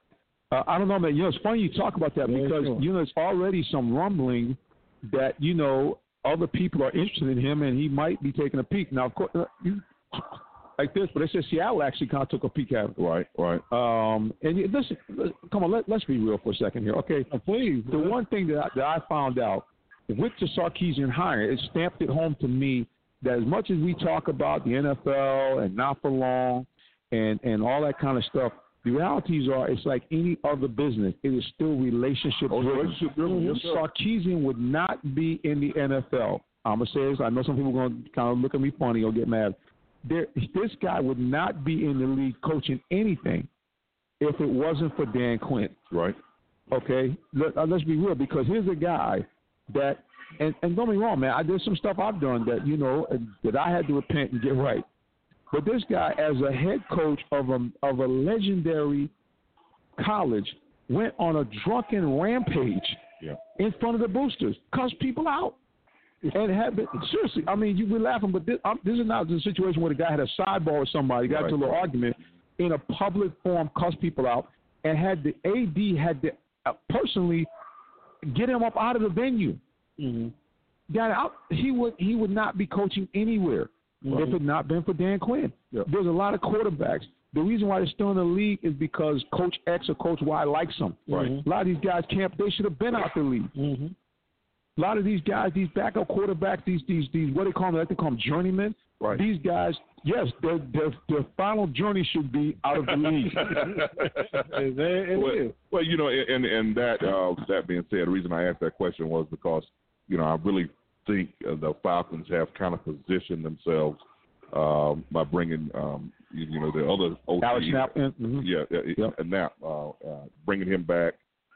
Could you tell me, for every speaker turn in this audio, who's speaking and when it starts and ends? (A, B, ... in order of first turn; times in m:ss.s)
0:00.5-0:13.0 A
0:02.2-0:02.8 B
0:13.0-0:13.6 C
0:13.7-0:17.3 A
0:17.3-0:18.2 B
0:17.9-0:43.5 A
0:32.5-0:33.8 C
0:33.2-0:33.6 B
0:44.2-0:45.8 A
0:45.9-0:46.2 C
0:46.7-0:54.8 A
0:55.5-0:59.1 A
1:00.0-1:03.0 A
1:03.6-1:05.6 A
1:06.3-1:17.5 A
1:11.3-1:11.7 C
1:18.2-1:19.6 A
1:20.0-1:20.3 B
1:20.9-1:33.5 A
1:24.0-1:24.4 B
1:31.1-1:31.4 C
1:31.1-1:31.4 B
1:33.6-1:33.9 B
1:34.8-1:43.6 A
1:43.3-1:44.5 C
1:43.5-1:45.5 B
1:45.1-2:01.2 C
1:57.4-1:59.1 A